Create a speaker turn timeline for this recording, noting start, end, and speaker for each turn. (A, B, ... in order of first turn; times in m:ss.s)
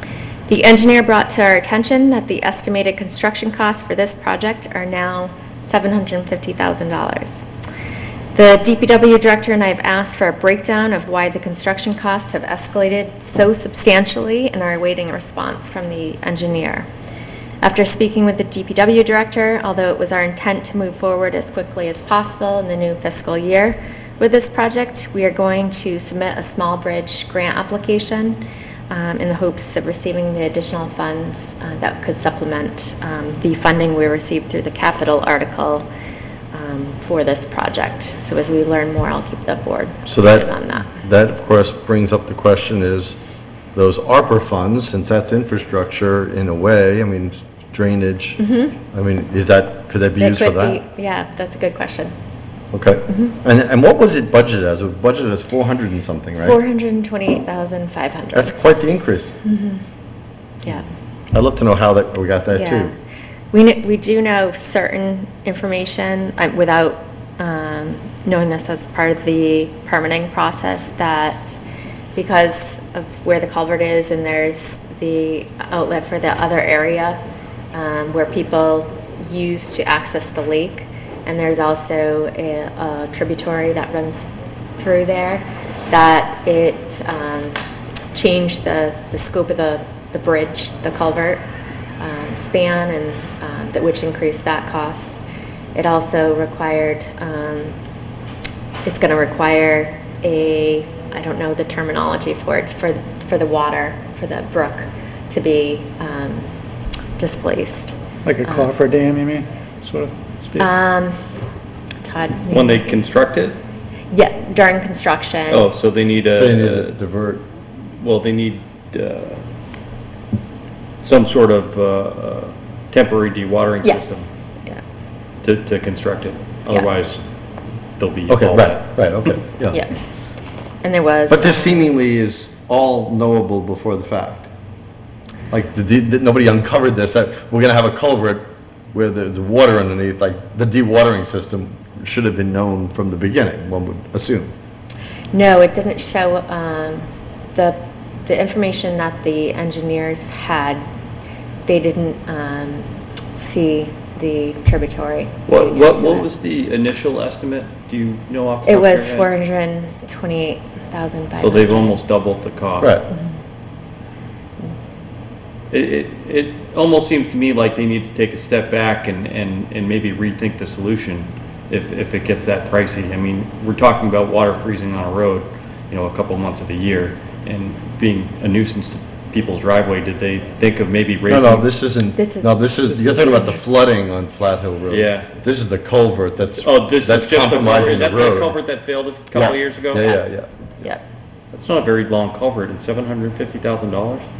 0:00.5-0:07.4 A
0:08.3-0:16.9 A
0:17.6-0:35.9 A
0:36.5-0:40.9 A
0:40.1-0:43.2 B
0:43.7-0:50.8 B
0:48.4-0:48.7 A
0:50.2-0:52.1 A
0:52.7-0:56.6 B
0:56.4-0:58.6 A
0:58.3-0:59.4 B
0:59.4-0:59.8 A
1:01.3-1:02.9 B
1:02.5-1:02.9 A
1:03.5-1:11.6 A
1:12.1-1:17.2 A
1:17.7-1:27.6 A
1:28.1-1:31.4 A
1:32.0-1:35.2 A
1:35.7-1:37.7 A
1:38.8-1:46.5 A
1:47.2-1:48.7 A
1:48.2-1:50.7 C
1:50.6-1:51.4 A
1:52.0-1:52.9 A
1:52.5-1:53.6 D
1:54.1-1:55.7 A
1:55.5-1:56.9 D
1:56.3-1:57.4 B
1:58.0-1:59.4 D
2:01.0-2:04.3 D
2:03.8-2:04.8 A
2:05.4-2:07.2 D
2:08.0-2:08.9 D
2:08.3-2:09.8 B
2:09.7-2:10.0 A
2:10.8-2:11.8 A
2:11.3-2:14.5 B
2:15.5-2:24.5 B
2:25.3-2:30.8 A
2:31.6-2:36.3 A
2:35.5-2:39.3 D
2:38.6-2:42.0 A
2:41.4-2:43.0 D
2:45.7-3:01.7 D
3:01.3-3:08.6 B
3:02.2-3:02.6 A
3:02.8-3:03.5 D
3:03.2-3:03.6 A
3:04.9-3:05.3 D
3:06.6-3:10.0 D
3:09.3-3:10.5 B
3:09.9-3:10.2 A
3:11.5-3:14.3 D